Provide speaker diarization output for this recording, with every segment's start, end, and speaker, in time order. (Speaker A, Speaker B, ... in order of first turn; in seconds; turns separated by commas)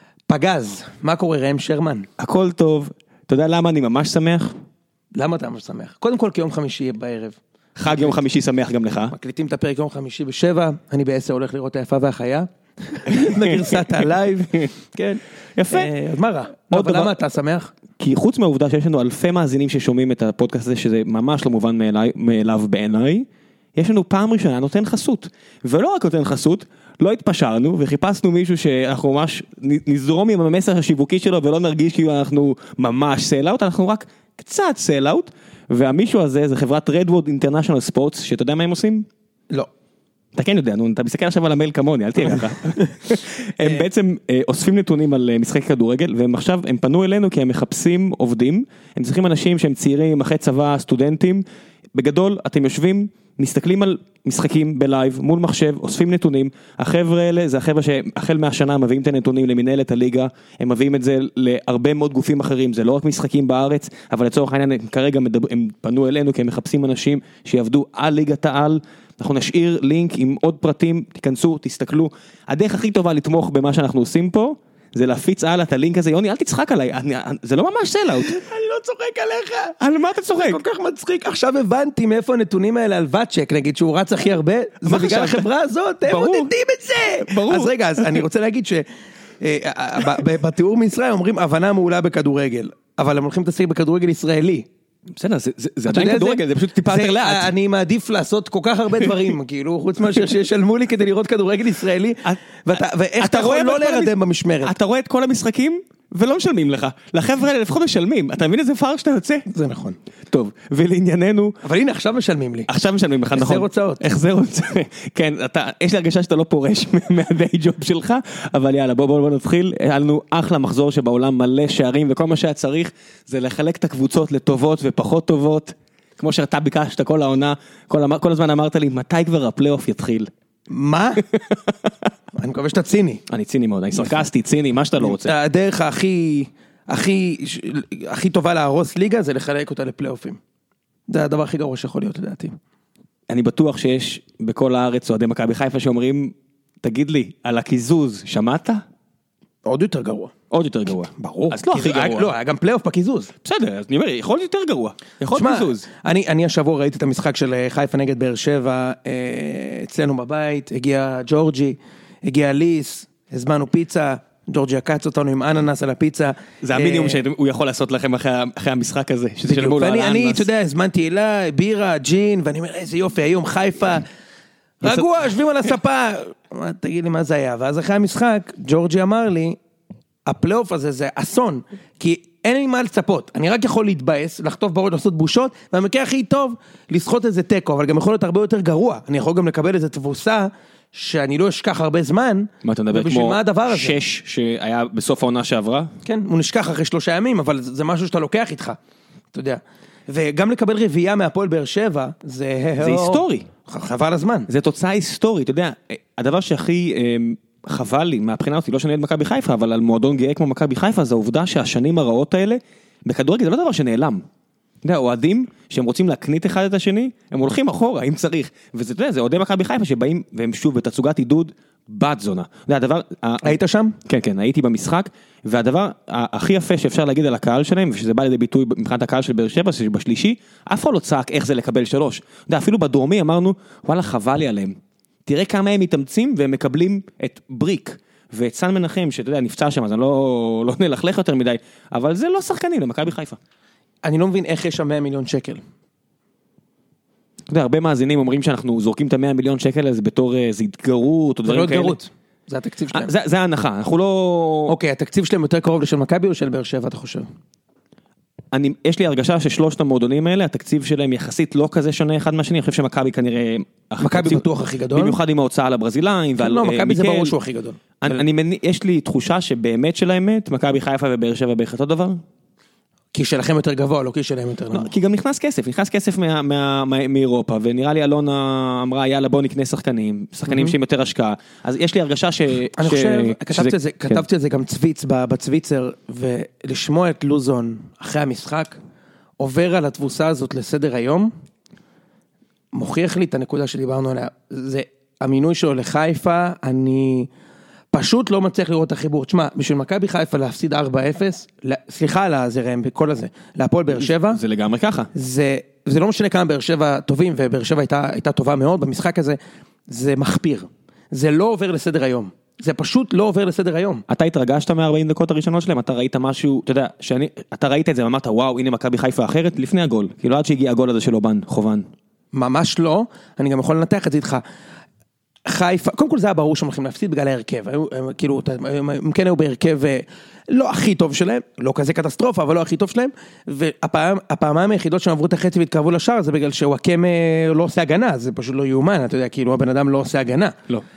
Speaker A: 0.3-2.1, Speaker B: 2.2-4.5, Speaker A: 5.1-7.4, Speaker B: 7.8-9.1, Speaker A: 9.1-17.7, Speaker B: 13.1-14.0, Speaker B: 15.6-15.9, Speaker B: 16.7-17.1, Speaker B: 18.0-39.1, Speaker B: 40.3-78.4, Speaker A: 42.3-42.9, Speaker A: 78.2-88.8, Speaker B: 79.8-80.6, Speaker B: 84.8-85.5, Speaker B: 86.1-86.5, Speaker B: 87.2-88.2, Speaker A: 89.4-94.7, Speaker B: 95.1-97.5, Speaker A: 95.9-104.7, Speaker B: 103.2-109.5, Speaker A: 109.5-110.0, Speaker B: 110.3-111.6, Speaker A: 111.6-112.7, Speaker B: 112.7-130.3, Speaker A: 113.3-114.0, Speaker A: 130.7-131.2, Speaker B: 131.2-131.9, Speaker A: 132.3-133.2, Speaker B: 133.3-135.3, Speaker A: 135.0-140.4, Speaker A: 141.1-142.6, Speaker B: 143.3-148.8, Speaker A: 149.6-150.3, Speaker B: 150.5-152.3, Speaker A: 151.1-153.3, Speaker B: 153.4-155.8, Speaker A: 155.3-167.2, Speaker B: 166.6-170.5, Speaker A: 169.5-174.1, Speaker A: 174.8-179.6, Speaker A: 180.2-194.0, Speaker B: 192.6-195.9, Speaker A: 196.0-198.8, Speaker A: 199.3-204.5, Speaker B: 202.8-203.5, Speaker B: 204.5-214.2, Speaker B: 214.8-234.7, Speaker A: 223.4-224.0, Speaker B: 235.2-243.4, Speaker A: 244.0-245.6, Speaker B: 247.5-252.0, Speaker A: 251.4-253.1, Speaker B: 252.9-254.7, Speaker A: 254.7-257.3, Speaker B: 258.5-267.3, Speaker A: 264.0-265.2, Speaker A: 266.4-268.2, Speaker B: 268.0-272.2, Speaker A: 273.1-274.9, Speaker B: 274.7-284.2, Speaker A: 280.5-280.7, Speaker A: 282.8-288.8, Speaker A: 289.4-291.3, Speaker A: 292.7-297.3, Speaker A: 297.9-304.4, Speaker B: 303.9-305.1, Speaker A: 305.1-314.0, Speaker B: 314.1-321.9, Speaker A: 322.3-324.4, Speaker A: 325.4-340.6